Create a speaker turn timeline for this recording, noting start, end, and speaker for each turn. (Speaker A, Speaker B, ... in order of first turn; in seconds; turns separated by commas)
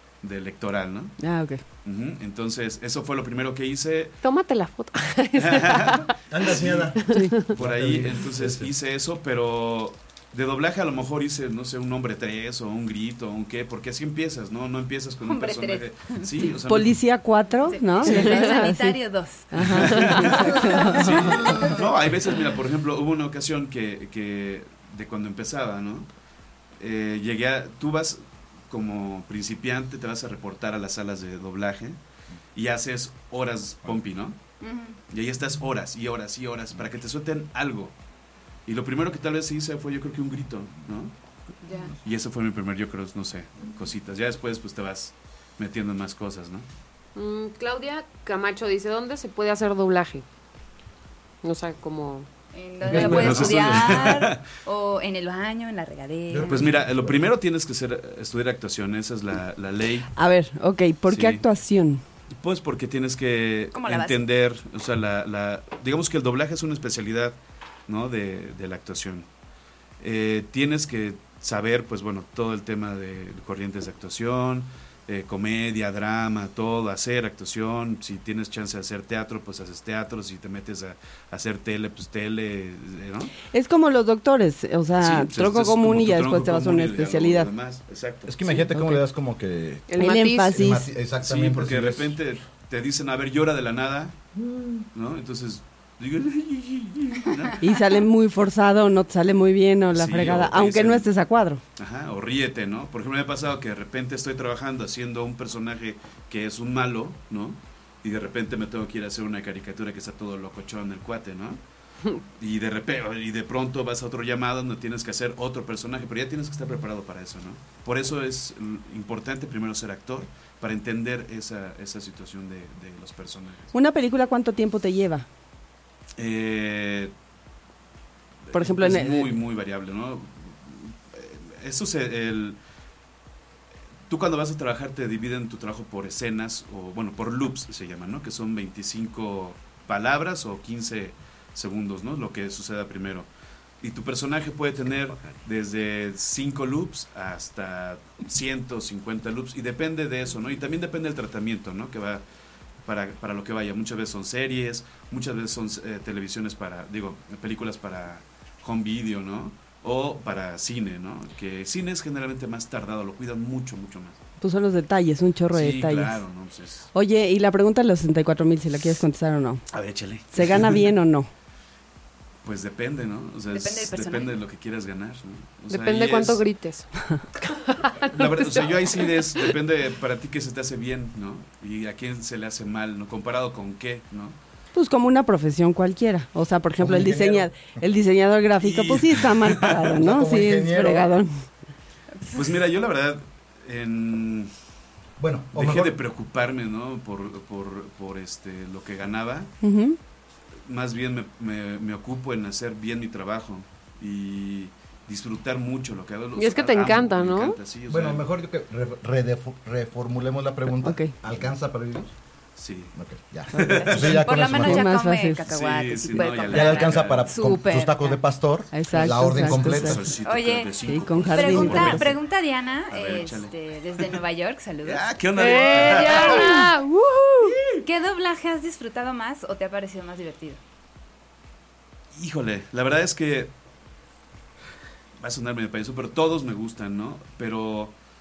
Speaker A: 0.2-1.2, Speaker B: 1.2-1.6, Speaker A: 1.8-4.2, Speaker C: 4.2-6.1, Speaker A: 5.3-6.9, Speaker D: 6.3-8.7, Speaker C: 6.9-7.5, Speaker A: 7.5-17.0, Speaker E: 15.2-16.6, Speaker B: 16.7-19.0, Speaker E: 17.6-21.8, Speaker C: 18.0-18.7, Speaker B: 19.5-21.4, Speaker A: 19.9-26.1, Speaker C: 19.9-20.4, Speaker D: 21.0-21.8, Speaker A: 26.8-32.0, Speaker A: 32.5-34.4, Speaker E: 34.6-34.9, Speaker A: 35.1-37.9, Speaker A: 38.6-41.1, Speaker E: 41.6-41.9, Speaker A: 42.0-46.6, Speaker C: 47.1-50.2, Speaker C: 51.4-52.2, Speaker E: 52.5-56.7, Speaker D: 52.8-53.8, Speaker A: 52.8-54.4, Speaker D: 56.3-57.2, Speaker A: 56.4-60.1, Speaker B: 60.1-62.0, Speaker A: 61.1-61.4, Speaker A: 62.3-67.4, Speaker E: 63.7-64.2, Speaker A: 67.9-69.3, Speaker A: 70.0-83.3, Speaker B: 83.5-87.5, Speaker A: 85.0-88.6, Speaker D: 88.2-89.8, Speaker B: 88.7-89.0, Speaker C: 89.9-90.6, Speaker B: 90.0-90.9, Speaker D: 90.5-92.2, Speaker A: 91.2-94.2, Speaker D: 94.3-94.8, Speaker A: 94.9-97.6, Speaker B: 97.6-101.6, Speaker A: 99.9-101.1, Speaker A: 101.8-111.6, Speaker A: 112.4-123.7, Speaker B: 123.7-125.3, Speaker A: 126.2-127.1, Speaker A: 128.5-132.6, Speaker B: 128.5-129.3, Speaker A: 134.1-143.3, Speaker A: 143.8-152.2, Speaker A: 152.8-164.2, Speaker B: 164.4-166.2, Speaker A: 165.5-166.9, Speaker B: 166.9-169.6, Speaker A: 169.7-170.9, Speaker B: 170.3-171.3, Speaker A: 172.4-176.4, Speaker E: 173.5-174.4, Speaker C: 175.7-179.5, Speaker A: 178.0-184.3, Speaker B: 184.7-191.4, Speaker D: 186.8-187.7, Speaker A: 188.6-189.8, Speaker D: 189.9-191.1, Speaker A: 192.3-194.5, Speaker D: 195.2-196.0, Speaker A: 195.5-199.5, Speaker B: 199.6-200.0, Speaker A: 200.7-208.2, Speaker C: 206.4-207.6, Speaker D: 207.9-212.1, Speaker B: 210.8-211.1, Speaker A: 212.6-212.9, Speaker D: 212.9-214.9, Speaker A: 213.5-214.3, Speaker B: 213.5-215.4, Speaker E: 213.8-218.2, Speaker A: 215.4-217.4, Speaker D: 216.4-220.1, Speaker B: 218.7-220.0, Speaker A: 219.3-222.2, Speaker E: 220.2-226.6, Speaker B: 220.8-222.1, Speaker A: 222.9-224.2, Speaker A: 224.8-226.6, Speaker C: 225.3-227.7, Speaker E: 227.8-230.6, Speaker A: 232.1-233.5, Speaker A: 235.2-237.9